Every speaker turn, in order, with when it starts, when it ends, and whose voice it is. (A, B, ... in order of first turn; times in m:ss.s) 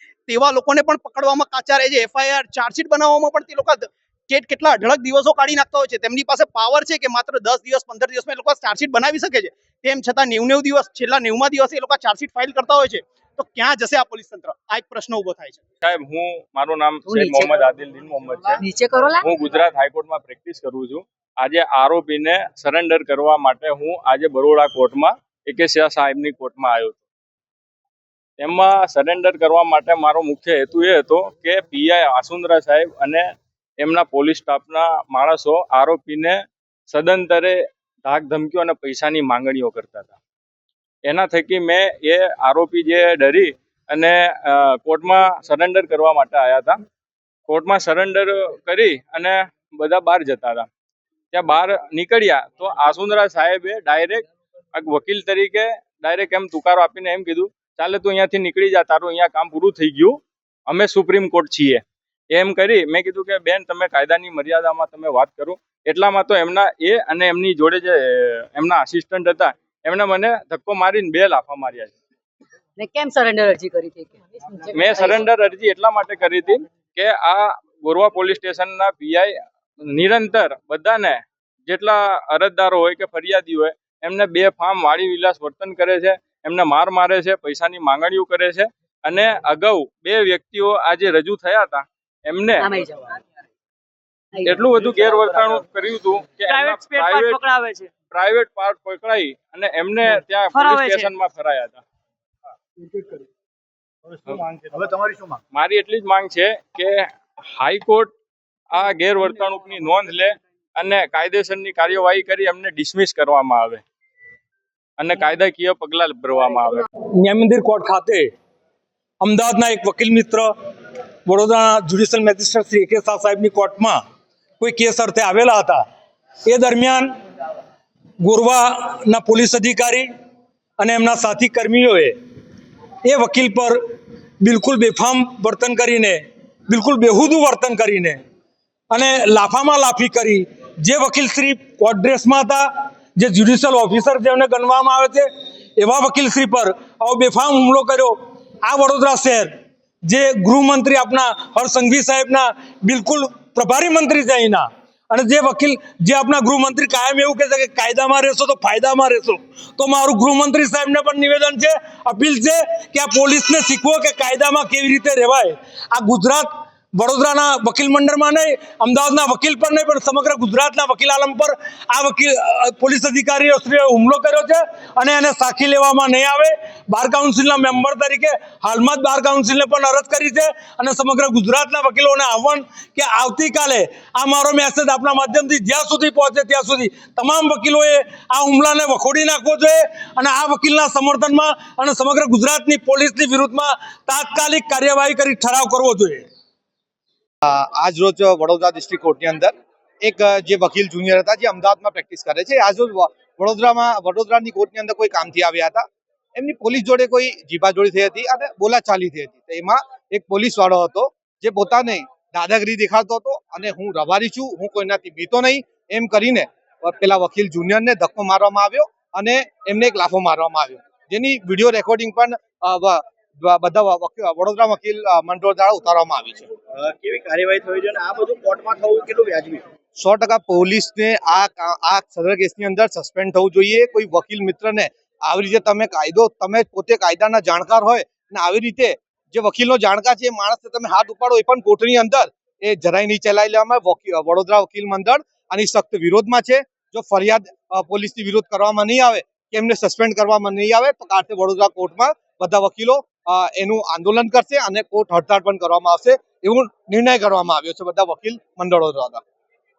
0:00.3-0:15.6 A
0:15.8-0:18.6 B
0:17.1-0:17.7 C
0:18.6-0:19.2 C
0:19.2-0:27.0 B
0:28.4-0:33.3 B
0:33.8-0:36.4 B
0:36.9-0:40.1 B
0:41.1-0:46.8 B
0:47.5-0:50.7 B
0:51.3-1:11.9 B
1:12.8-1:15.2 C
1:14.7-1:19.4 B
1:19.9-1:32.8 B
1:32.6-1:33.1 C
1:34.3-1:34.6 C
1:34.4-1:37.4 B
1:36.5-1:37.9 C
1:38.1-1:41.8 B
1:40.6-1:41.1 C
1:45.5-1:47.0 B
1:47.6-1:48.1 B
1:48.7-1:53.8 B
1:55.0-1:56.9 B
1:57.2-1:58.3 D
1:59.2-2:00.5 D
2:01.3-2:04.0 D
2:04.6-2:05.8 D
2:06.5-2:07.1 D
2:08.2-2:10.1 D
2:10.8-2:12.1 D
2:13.0-2:13.8 D
2:14.4-2:18.2 D
2:18.9-2:29.5 D
2:30.0-3:16.2 D
3:17.4-3:25.8 E
3:26.4-3:46.5 E
3:46.7-3:49.6 F
3:50.0-4:19.2 E